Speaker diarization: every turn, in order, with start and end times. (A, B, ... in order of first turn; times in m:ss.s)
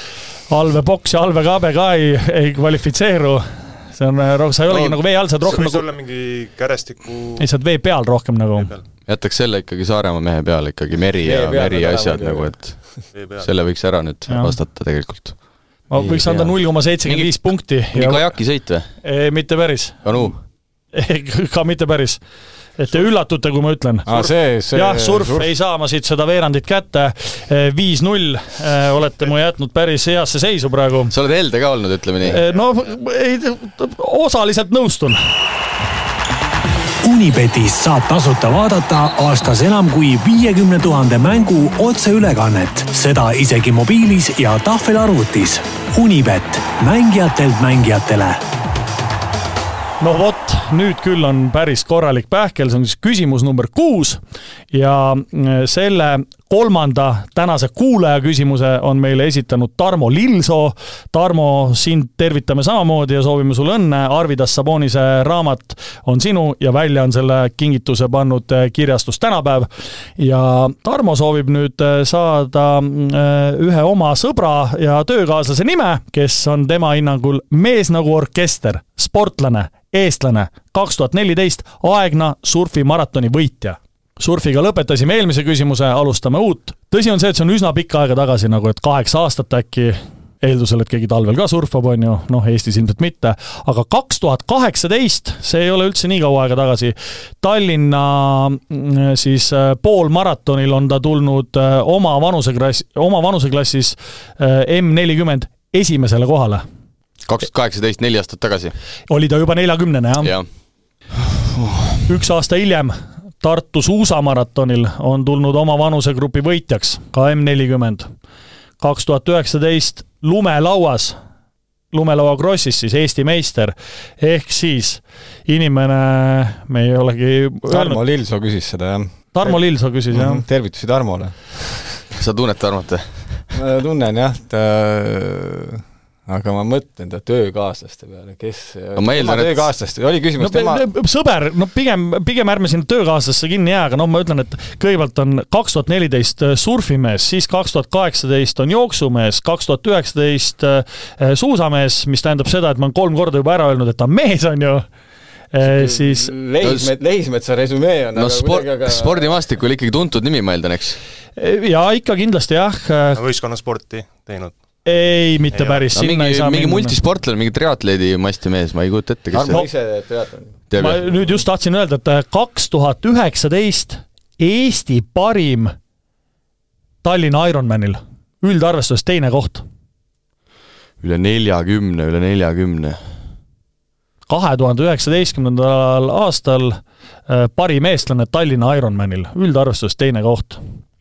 0:00.5-0:05.8 A
0:05.4-0:07.4 B
0:07.4-0:08.7 A
0:08.6-0:08.8 B
0:09.1-0:15.4 C
0:11.2-0:13.1 D
0:13.1-0:13.5 B
0:14.3-0:14.6 A
0:15.9-0:18.3 A
0:16.0-0:16.5 D
0:16.0-0:16.5 C
0:17.0-0:18.9 C
0:19.0-0:20.3 A
0:20.0-0:20.4 C
0:20.9-0:22.2 A
0:22.8-0:31.1 A
0:24.1-0:25.5 D
0:31.1-0:32.4 C
0:32.2-0:35.2 A
0:37.0-0:48.4 E
0:50.0-0:54.2 A
0:54.7-1:46.6 A
1:47.3-1:48.8 C
1:49.1-1:50.3 A
1:50.2-1:50.5 C
1:51.1-1:52.0 C
1:52.1-1:58.1 A
1:58.8-2:01.2 A
2:01.9-2:08.0 A
2:07.7-2:11.8 D
2:09.3-2:10.5 A
2:12.1-2:13.5 C
2:13.5-2:20.8 D
2:19.0-2:19.7 C
2:20.4-2:34.9 A
2:35.5-2:36.3 A
2:35.6-2:39.3 D
2:36.6-2:36.9 C
2:38.2-2:41.0 C
2:41.4-2:43.2 A
2:43.2-2:44.6 B
2:44.8-2:47.0 A
2:45.5-2:45.9 B
2:45.9-2:49.6 C
2:49.3-2:50.6 D
2:49.4-2:49.7 A
2:50.7-2:51.2 C
2:50.8-2:55.7 A
2:57.0-2:59.6 A
3:01.0-3:03.0 C
3:04.3-3:10.6 A